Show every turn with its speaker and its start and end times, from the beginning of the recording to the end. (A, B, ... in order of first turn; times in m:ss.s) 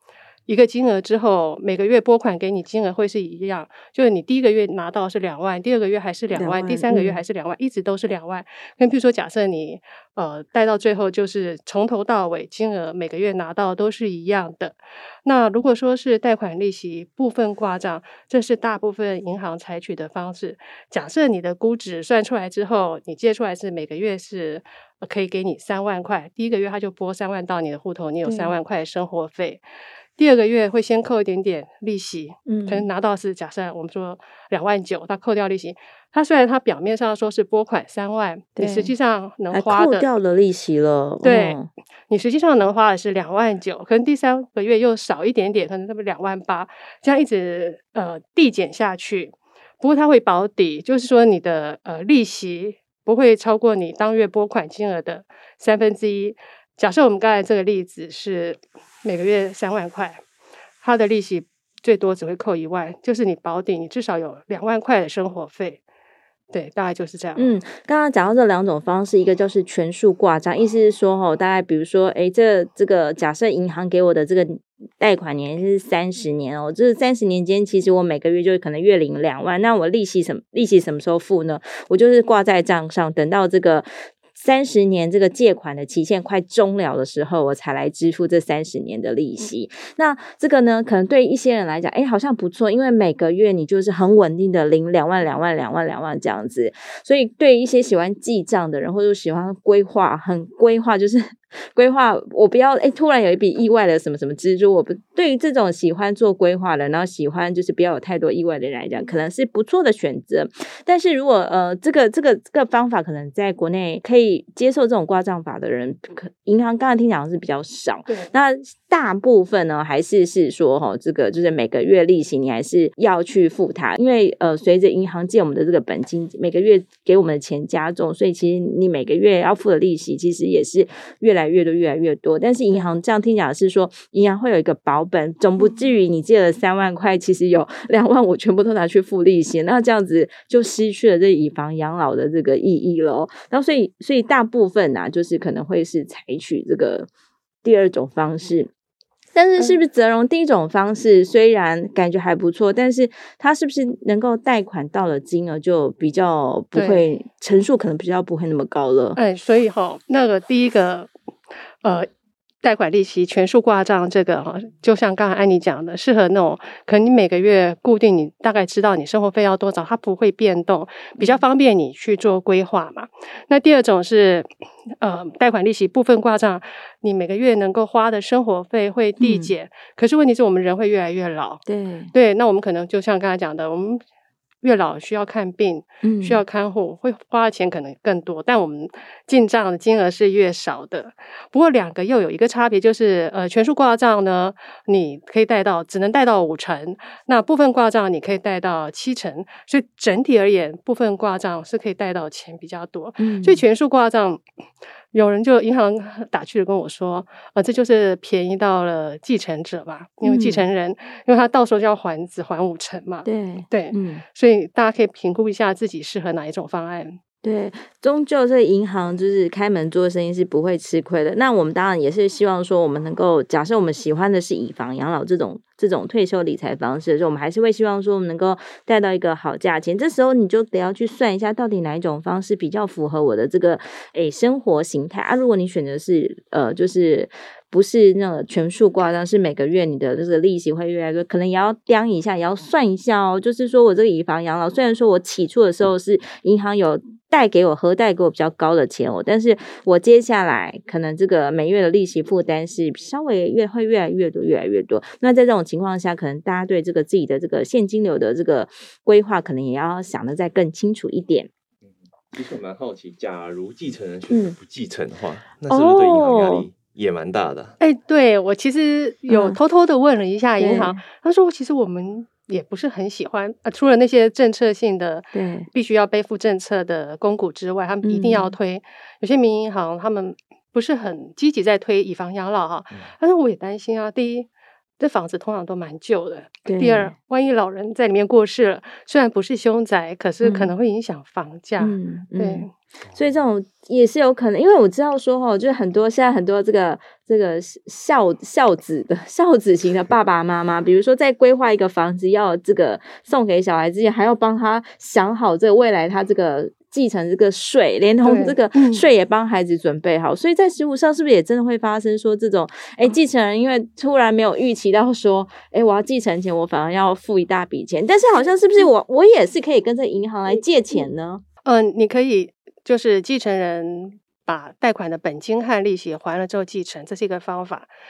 0:00.5-0:29.6 A
0:06.3-0:07.2 B
0:28.2-0:28.6 B
0:30.2-0:40.1 A
0:32.4-0:32.8 B
0:38.6-0:38.9 B
0:39.5-0:41.7 B
0:41.2-1:00.2 A
1:00.8-1:05.8 A
1:06.5-1:07.5 A
1:07.4-2:27.1 B
2:27.6-2:28.7 B
2:29.3-2:39.2 B
2:36.7-2:37.0 A
2:39.2-2:41.1 A
2:41.8-2:42.1 A
2:42.6-2:54.5 A
2:55.0-3:04.0 A
2:59.2-2:59.5 B
3:01.7-3:02.1 B
3:04.6-3:24.4 A
3:06.0-3:06.4 B
3:23.2-3:23.6 B
3:25.1-3:37.2 A
3:30.2-3:30.6 B
3:33.2-3:34.2 B
3:37.4-4:21.5 B
4:22.3-4:27.8 C
4:24.3-4:24.6 B
4:25.7-4:26.7 B
4:27.8-4:52.7 A
4:29.3-4:29.6 B
4:30.6-4:31.0 B
4:35.3-4:35.7 B
4:38.0-4:38.6 B
4:46.6-4:47.1 B
4:50.4-4:50.7 B
4:51.8-5:21.4 B
5:08.2-5:09.1 A
5:21.6-5:27.9 A